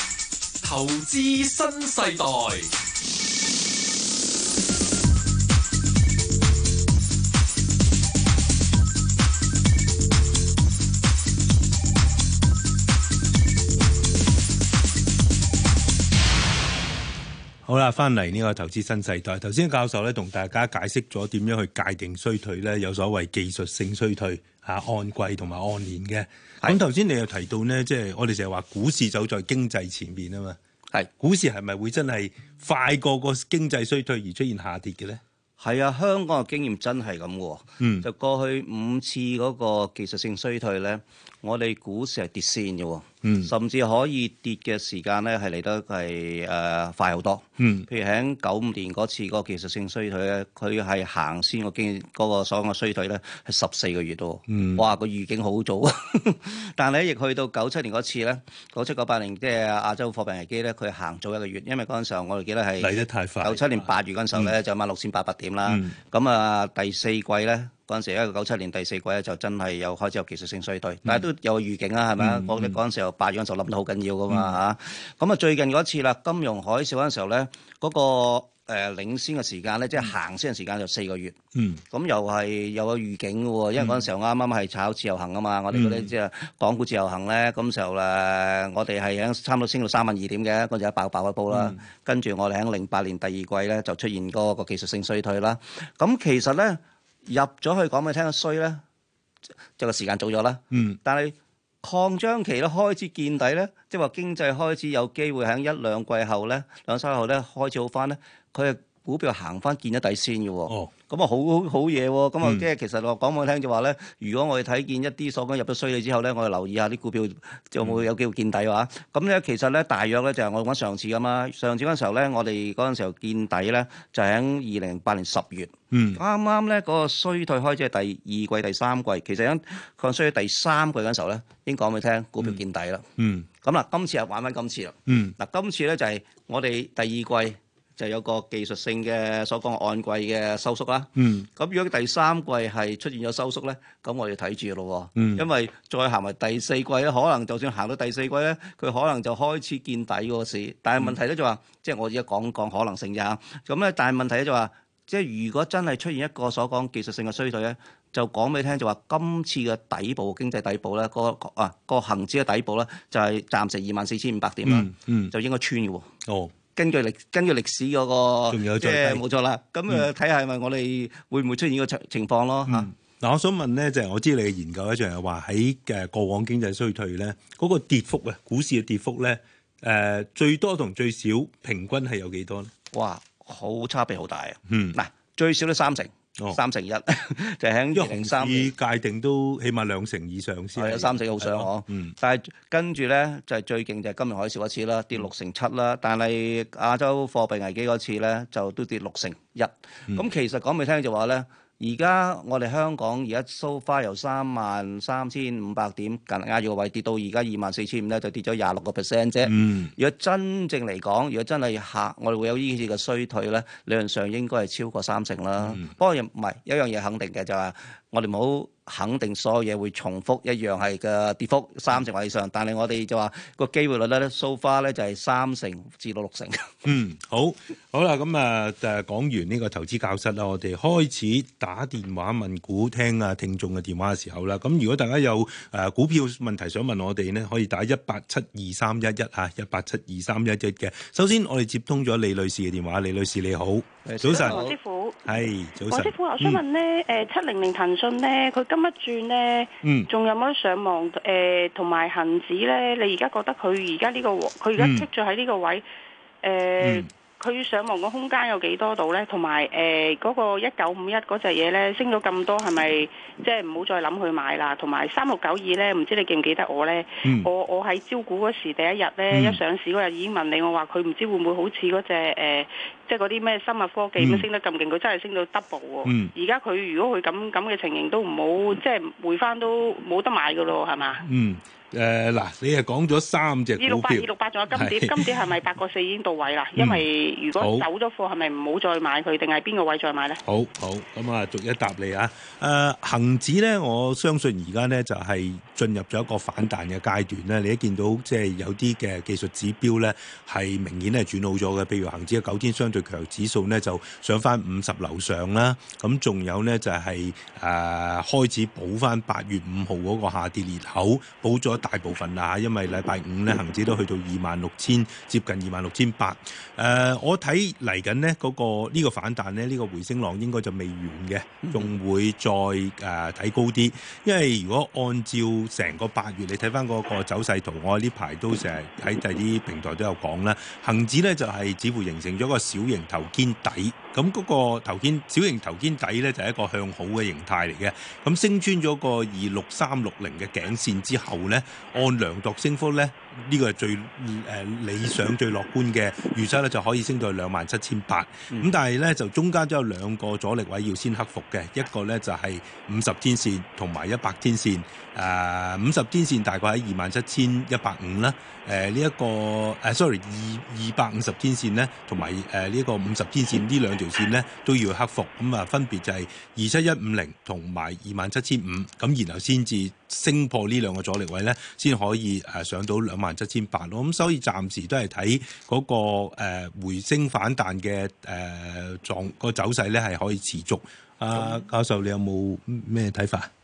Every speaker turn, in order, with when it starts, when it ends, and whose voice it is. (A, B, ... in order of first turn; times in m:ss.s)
0:00.6-0:02.7 A
0:17.6-0:30.6 B
0:31.2-0:35.2 B
0:35.6-1:21.4 C
0:37.8-0:38.1 B
0:43.2-0:43.5 B
0:47.6-0:47.9 B
0:54.5-0:54.8 B
1:02.8-1:04.5 B
1:05.7-1:06.0 B
1:12.2-1:12.8 B
1:14.3-1:14.6 B
1:21.6-1:21.8 B
1:21.9-1:38.8 C
1:25.7-1:26.1 B
1:31.5-1:31.8 B
1:39.8-2:13.1 C
1:40.7-1:41.0 B
2:05.9-2:06.2 B
2:13.2-2:13.5 B
2:13.6-2:46.1 C
2:15.1-2:15.4 B
2:21.2-2:21.5 B
2:25.2-2:25.4 B
2:44.6-2:45.3 B
2:46.3-2:46.5 B
2:46.8-2:52.9 C
2:48.5-2:49.2 B
2:52.7-3:02.7 B
3:02.9-3:08.7 C
3:04.7-3:05.0 B
3:07.9-3:12.1 B
3:10.8-3:46.8 C
3:29.4-3:29.9 B
3:46.8-4:04.7 B
4:04.0-4:04.7 C
4:04.3-4:05.3 D
4:05.2-4:06.6 B
4:05.9-4:15.8 D
4:09.8-4:10.1 B
4:14.8-4:15.1 B
4:16.4-4:41.2 D
4:16.8-4:17.1 B
4:27.2-4:27.5 B
4:29.3-4:29.6 B
4:34.2-4:34.5 B
4:36.0-4:36.3 B
4:41.2-4:45.3 B
4:43.8-4:50.4 D
4:46.8-4:47.1 B
4:47.6-4:47.9 B
4:50.4-6:23.5 B